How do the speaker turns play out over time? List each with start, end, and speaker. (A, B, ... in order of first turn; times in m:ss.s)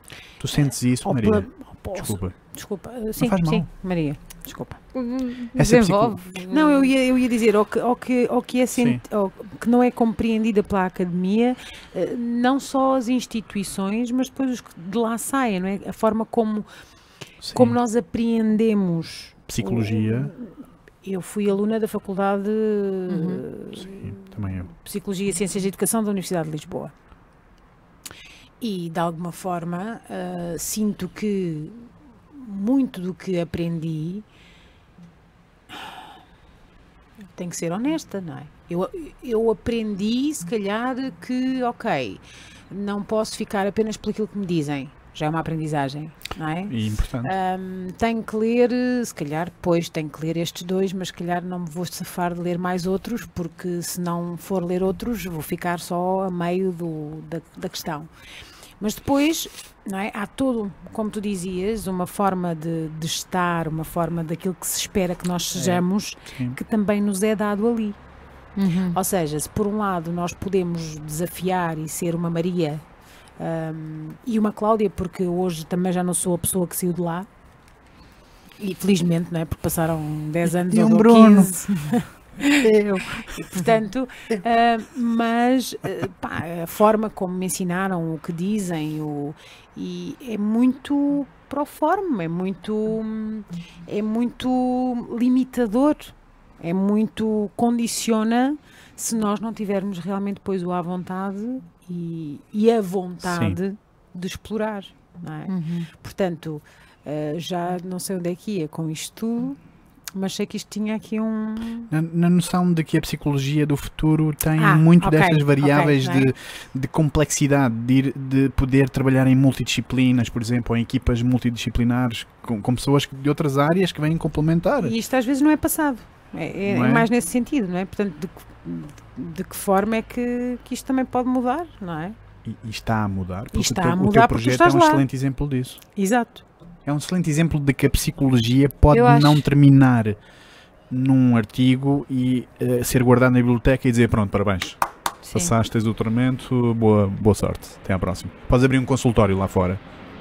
0:00.4-0:02.4 A
0:01.0-0:04.8 B
0:03.2-0:03.7 A
0:04.9-0:06.9 C
0:05.6-0:06.2 A
0:06.5-0:16.7 B
0:08.8-0:09.0 A
0:17.4-0:17.8 A
0:17.5-0:26.9 B
0:19.5-0:20.3 A
0:23.1-0:23.4 C
0:23.8-0:24.7 A
0:28.6-0:34.2 B
0:37.4-0:58.1 B
0:46.7-0:47.3 A
0:58.8-1:08.0 B
1:05.5-1:06.6 A
1:08.6-1:09.0 C
1:08.9-1:12.8 B
1:13.4-1:17.3 B
1:18.6-1:22.6 B
1:20.7-1:21.7 A
1:22.5-1:23.7 A
1:23.3-1:49.6 B
1:43.2-1:43.6 A
1:45.5-1:45.9 C
1:50.1-1:51.9 B
1:51.9-2:04.9 A
1:54.6-1:56.3 B
2:04.8-2:12.2 B
2:06.6-2:07.1 A
2:12.4-2:15.8 A
2:13.5-2:15.0 B
2:16.0-2:16.4 B
2:16.8-2:20.2 A
2:18.9-2:19.4 C
2:20.9-2:24.8 A
2:25.2-2:25.5 C
2:25.3-2:29.8 A